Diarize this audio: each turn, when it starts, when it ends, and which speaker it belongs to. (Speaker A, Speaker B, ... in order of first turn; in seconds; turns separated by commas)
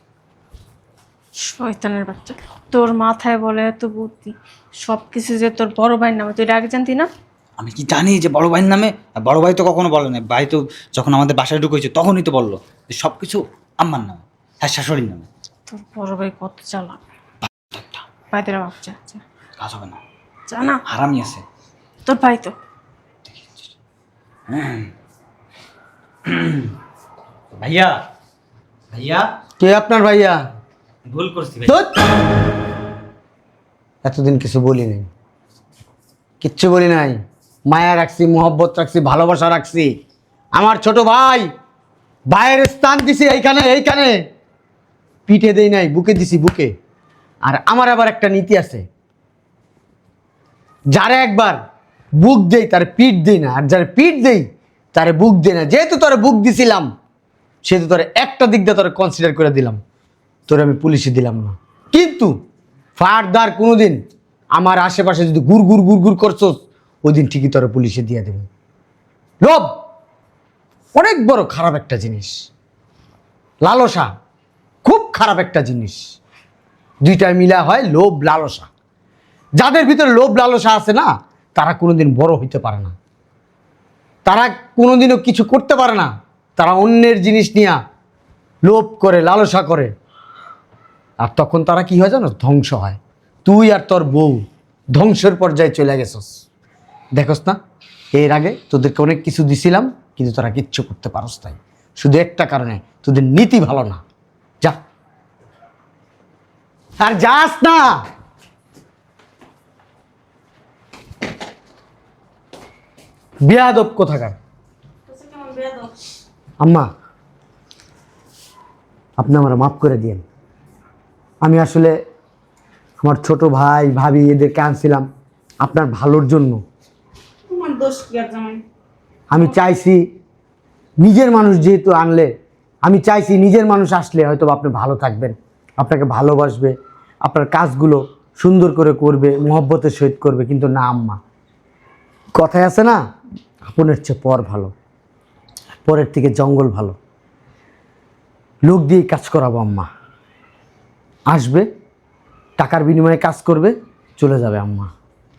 Speaker A: 1.4-7.1, Speaker B: 7.6-15.3, Speaker A: 15.7-17.0, Speaker A: 18.3-19.2, Speaker B: 19.6-20.0, Speaker A: 20.5-20.8, Speaker B: 20.9-21.4, Speaker A: 22.1-22.5, Speaker B: 24.5-24.9, Speaker B: 26.2-26.7, Speaker B: 27.5-28.0, Speaker B: 28.9-29.3, Speaker C: 29.6-30.4, Speaker B: 31.1-31.8, Speaker C: 31.6-31.9, Speaker C: 34.0-35.1, Speaker C: 36.4-39.9, Speaker C: 40.5-41.5, Speaker C: 42.3-44.2, Speaker C: 45.3-46.7, Speaker C: 47.5-48.8, Speaker C: 50.9-51.6, Speaker C: 52.2-56.9, Speaker C: 57.6-59.8, Speaker C: 60.5-62.3, Speaker C: 63.0-64.0, Speaker C: 64.5-68.5, Speaker C: 69.4-69.7, Speaker C: 70.9-72.4, Speaker C: 73.6-74.1, Speaker C: 74.8-76.0, Speaker C: 77.0-78.7, Speaker C: 79.6-82.9, Speaker C: 84.2-87.8, Speaker C: 88.7-89.9, Speaker C: 91.2-94.4, Speaker C: 94.9-96.3, Speaker C: 97.2-97.6, Speaker C: 98.1-104.0, Speaker C: 107.0-108.0, Speaker C: 113.4-114.3, Speaker D: 115.1-115.9, Speaker C: 116.6-116.9, Speaker C: 119.2-120.2, Speaker C: 121.4-121.9, Speaker C: 123.0-125.0, Speaker C: 125.6-126.6, Speaker D: 127.5-128.6, Speaker C: 129.3-130.0, Speaker C: 131.0-132.3, Speaker C: 132.8-136.7, Speaker C: 137.2-141.2, Speaker C: 142.3-143.0, Speaker C: 143.7-144.7, Speaker C: 145.8-147.0, Speaker C: 148.7-149.9, Speaker C: 151.3-151.7, Speaker C: 152.6-154.9